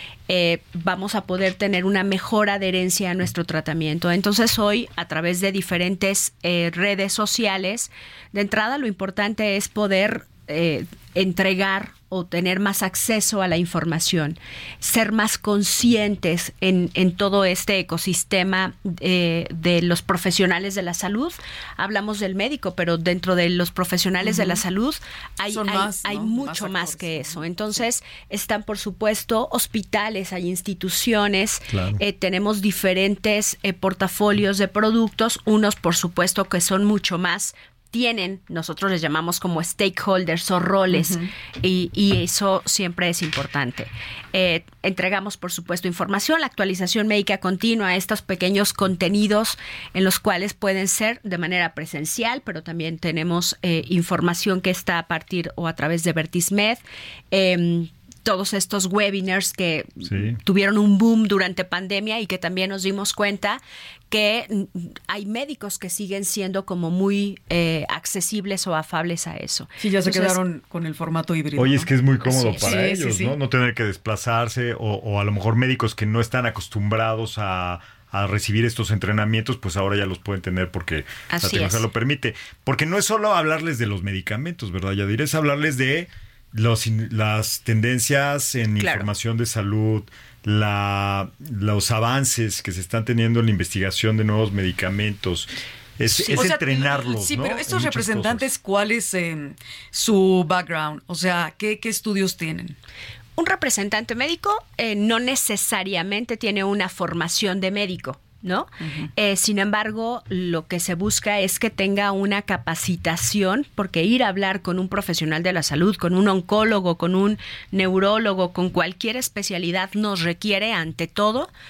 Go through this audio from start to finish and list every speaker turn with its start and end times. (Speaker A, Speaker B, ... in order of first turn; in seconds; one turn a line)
Speaker A: 0.3-70.4
Speaker B: 24.2-24.6
Speaker B: 25.5-27.8
Speaker C: 31.7-32.0
Speaker B: 40.9-41.3
Speaker C: 60.0-60.4
Speaker B: 69.8-71.9
Speaker C: 71.6-98.5
Speaker A: 72.2-72.8
Speaker B: 72.6-73.3
Speaker A: 81.3-81.9
Speaker A: 88.8-89.1
Speaker A: 96.1-96.5
Speaker B: 96.2-102.8
Speaker A: 103.4-121.5
Speaker B: 108.8-109.1